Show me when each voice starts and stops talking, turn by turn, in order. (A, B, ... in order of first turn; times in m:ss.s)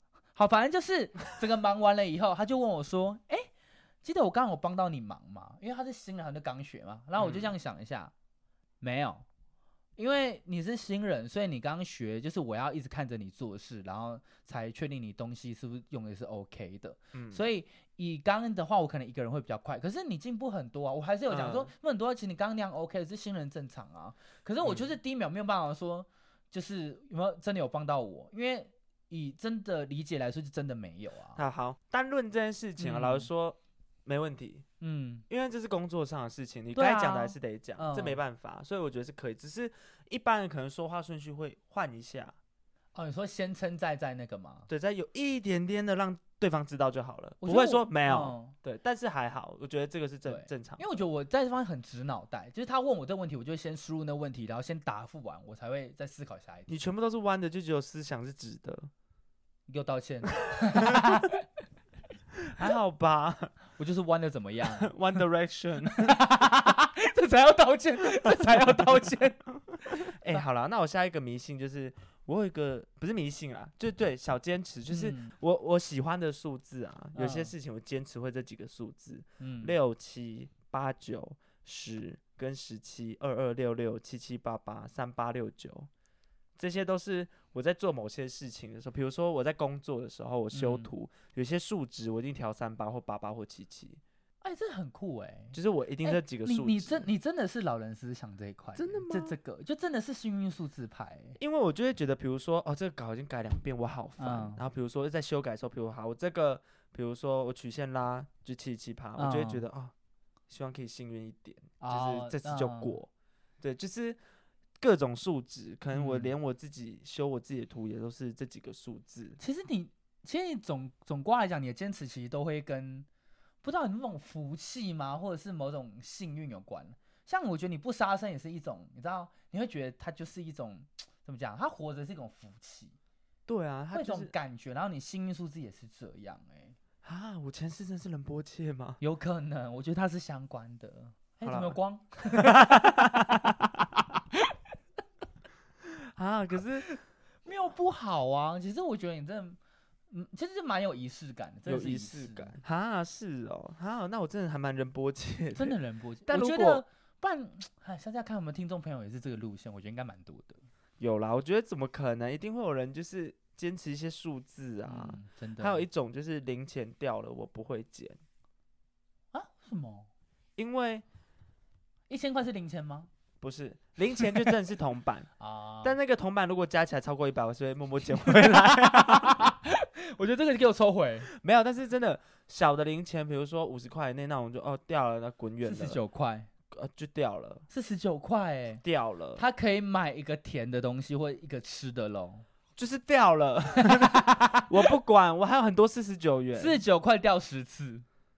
0:00.4-0:03.5 A
0:04.0-0:08.1 A
0:07.2-0:07.5 B
0:08.8-0:09.2 A
0:10.0-0:31.4 A
0:17.1-0:17.4 B
0:21.3-0:21.7 B
0:24.6-0:24.9 B
0:31.4-0:34.7 B
0:32.8-0:33.3 A
0:34.8-0:35.2 A
0:35.3-0:42.4 B
0:36.8-0:38.2 A
0:42.9-0:44.7 A
0:44.7-0:50.8 B
0:47.4-0:48.6 A
0:50.3-0:56.7 A
0:56.7-0:58.9 B
0:59.7-1:01.4 A
1:00.7-1:01.2 B
1:02.4-1:03.5 B
1:03.8-1:04.9 A
1:04.8-1:06.2 B
1:05.9-1:10.4 A
1:08.4-1:09.0 B
1:09.9-1:25.9 B
1:14.9-1:15.3 A
1:17.2-1:17.5 A
1:19.4-1:19.8 A
1:26.6-1:34.0 B
1:30.5-1:30.9 A
1:34.4-1:41.4 A
1:35.5-1:37.1 B
1:38.8-1:39.4 B
1:41.4-1:49.9 B
1:44.2-1:44.6 A
1:49.2-1:49.6 A
1:50.5-1:53.1 B
1:51.8-1:53.0 A
1:53.6-1:54.2 B
1:54.8-1:59.4 B
1:55.9-1:56.3 A
1:59.4-2:03.1 A
2:03.6-2:13.0 A
2:13.5-2:14.3 B
2:13.9-2:16.8 A
2:17.0-2:19.0 B
2:19.0-2:23.3 A
2:21.4-2:21.8 B
2:22.4-2:23.8 B
2:26.0-2:26.9 B
2:26.8-2:29.6 A
2:30.1-2:32.6 A
2:31.7-2:35.8 B
2:35.6-2:40.6 A
2:36.3-2:36.8 B
2:41.0-2:48.2 B
2:44.9-2:45.8 A
2:49.3-2:50.1 A
2:50.6-2:51.0 B
2:52.1-2:53.1 A
2:53.4-2:55.3 B
2:55.4-2:56.0 A
2:55.8-2:59.5 B
2:58.2-3:01.3 A
3:01.3-3:06.0 B
3:05.6-3:06.5 A
3:06.7-3:07.6 B
3:07.7-3:08.8 A
3:08.8-3:09.4 B
3:09.4-3:12.4 A
3:12.8-3:14.2 B
3:13.8-3:14.7 A
3:14.7-3:16.8 B
3:16.6-3:18.0 A